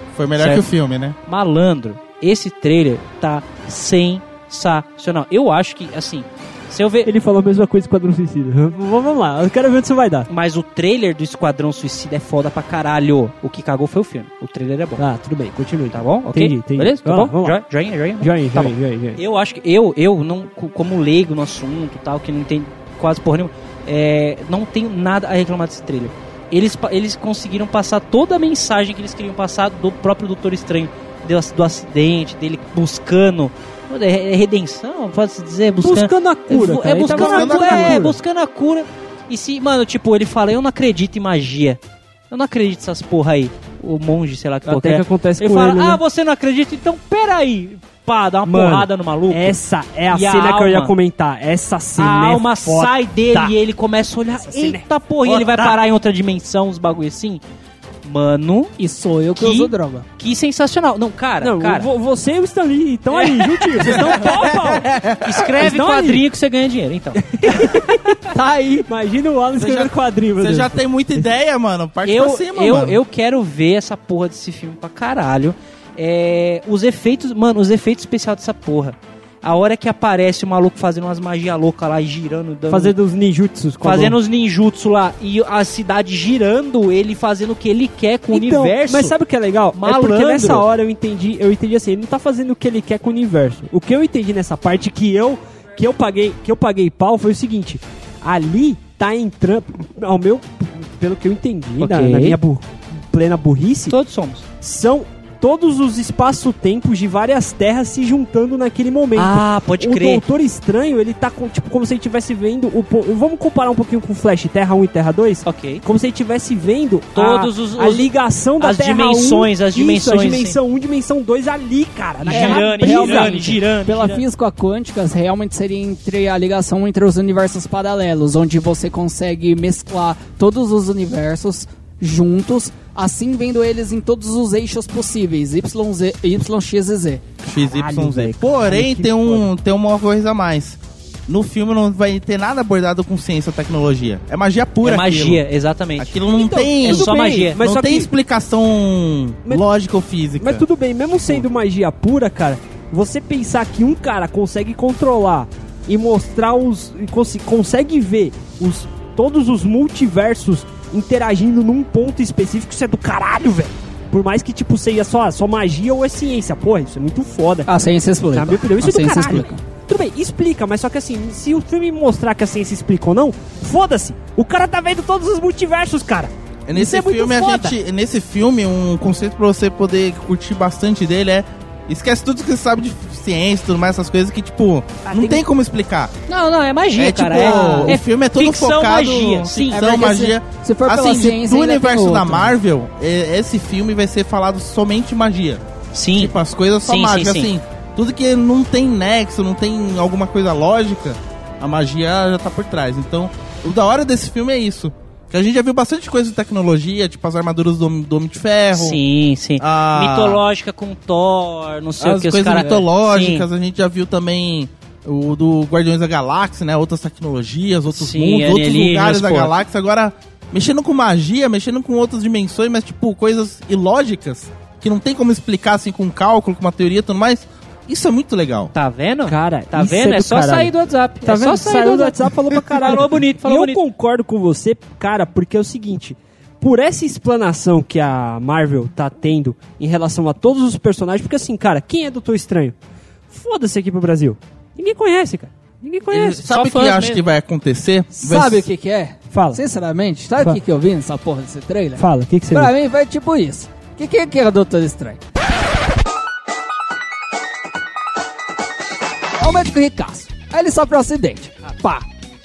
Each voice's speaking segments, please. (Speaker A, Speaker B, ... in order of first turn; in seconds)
Speaker A: 0.1-1.1, 37.1-38.0, 64.1-65.5, 69.6-73.0, 137.4-145.4, 146.0-150.6, 176.7-186.1, 186.9-195.6, 196.1-209.0, 209.6-210.4, 212.0-228.7, 246.1-248.7
Speaker B: 0.4-0.7, 1.2-7.1, 10.3-15.0, 15.9-41.8, 42.3-49.6, 50.1-50.9, 52.0-57.4, 58.0-58.7, 59.4-61.9, 63.1-64.3, 65.2-67.2, 72.0-82.9, 83.8-89.2, 89.7-90.7, 101.8-102.4, 103.9-104.4, 109.2-110.2, 115.4-115.8, 117.1-120.6, 122.2-124.2, 144.8-146.2, 146.8-147.6, 186.3-189.9, 195.9-196.3, 196.8-197.5, 208.7-213.5, 217.9-219.5, 228.7-233.8, 246.4-247.2
Speaker C: 7.0-10.3, 15.0-17.6, 18.2-19.2, 35.8-38.2, 44.6-46.0, 48.5-53.5, 54.3-55.7, 61.4-64.9, 65.6-66.2, 67.2-68.2, 68.9-70.8, 82.7-84.2, 88.3-104.0, 104.6-123.6, 137.5-139.5, 146.4-148.1, 150.4-167.7, 168.3-177.8, 229.3-230.7, 231.2-242.8, 243.3-246.4, 249.3-249.6, 252.0-252.7
Speaker D: 58.8-60.0, 68.3-68.9, 122.3-137.2, 167.7-169.6, 187.4-187.9, 189.7-192.5, 248.1-255.2, 259.4-262.1